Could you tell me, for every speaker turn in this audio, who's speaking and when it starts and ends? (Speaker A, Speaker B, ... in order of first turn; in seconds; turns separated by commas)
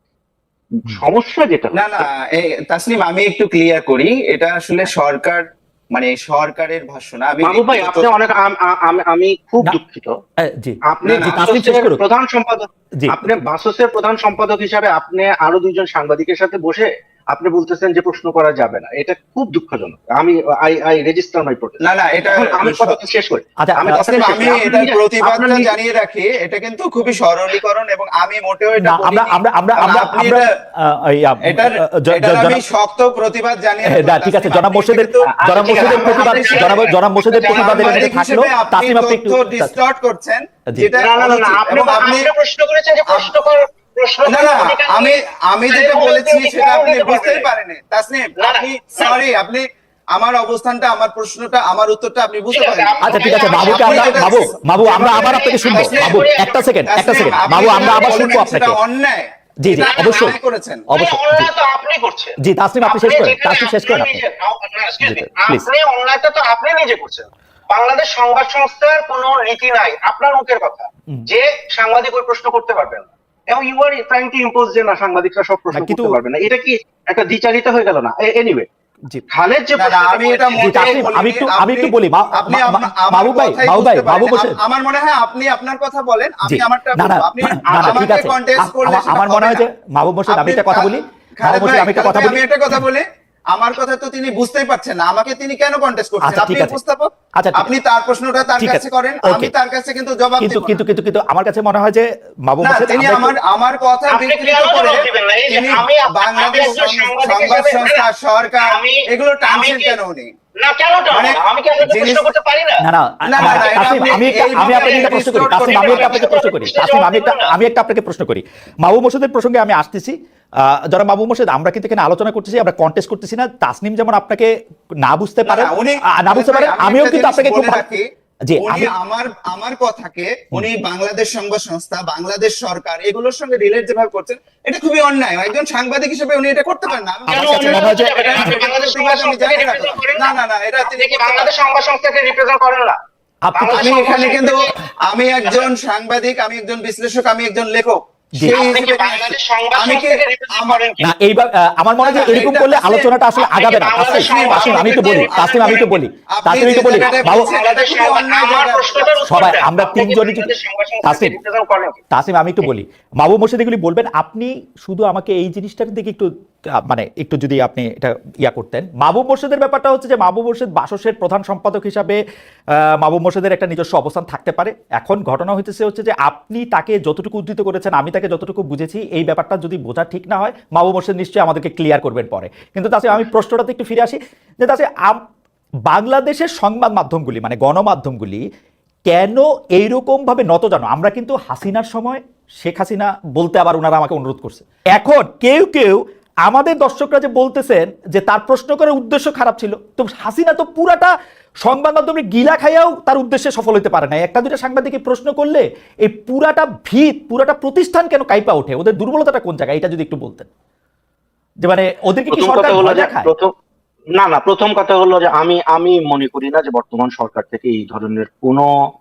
Speaker A: 0.8-2.0, Speaker B: 1.7-8.1, Speaker A: 7.4-10.2, Speaker C: 10.4-12.0, Speaker A: 10.9-25.7, Speaker B: 11.0-11.3, Speaker C: 13.0-13.3, Speaker B: 21.8-23.0, Speaker C: 23.6-24.3, Speaker B: 23.9-30.4, Speaker C: 28.8-32.6, Speaker B: 31.4-36.8, Speaker C: 33.8-39.7, Speaker A: 35.2-38.1, Speaker B: 37.4-42.3, Speaker A: 40.9-47.5, Speaker B: 43.1-43.3, Speaker B: 44.2-56.2, Speaker A: 48.4-49.1, Speaker A: 52.5-56.7, Speaker C: 53.0-58.8, Speaker B: 56.9-60.8, Speaker A: 57.2-58.5, Speaker C: 59.6-60.3, Speaker A: 59.7-60.4, Speaker C: 60.9-61.5, Speaker A: 60.9-78.7, Speaker C: 62.4-64.2, Speaker C: 65.0-65.7, Speaker C: 75.7-76.1, Speaker A: 79.3-81.0, Speaker B: 79.8-89.7, Speaker C: 80.6-84.5, Speaker C: 86.5-92.4, Speaker B: 90.3-100.8, Speaker C: 96.2-96.8, Speaker C: 97.4-97.7, Speaker C: 98.6-99.5, Speaker C: 100.4-103.3, Speaker B: 102.6-110.3, Speaker A: 104.1-108.0, Speaker A: 108.6-110.0, Speaker A: 110.6-112.8, Speaker B: 111.1-112.3, Speaker C: 112.8-124.5, Speaker B: 113.2-116.2, Speaker A: 113.4-117.5, Speaker C: 125.0-127.8, Speaker B: 125.5-128.0, Speaker C: 128.5-128.9, Speaker B: 128.6-141.5, Speaker A: 137.3-143.0, Speaker C: 137.5-138.5, Speaker C: 143.4-143.9, Speaker A: 143.5-144.7, Speaker B: 143.7-150.8, Speaker C: 148.3-148.6, Speaker A: 148.4-151.0, Speaker C: 151.0-157.5, Speaker B: 152.0-153.1, Speaker A: 153.3-156.0, Speaker B: 154.1-159.2, Speaker A: 156.9-162.0, Speaker C: 159.2-160.5, Speaker C: 161.0-161.3, Speaker C: 162.1-166.3, Speaker C: 166.8-172.2, Speaker C: 173.0-185.2, Speaker C: 185.9-188.4, Speaker C: 189.1-210.5, Speaker C: 211.6-213.3, Speaker A: 212.3-213.5, Speaker A: 214.2-218.7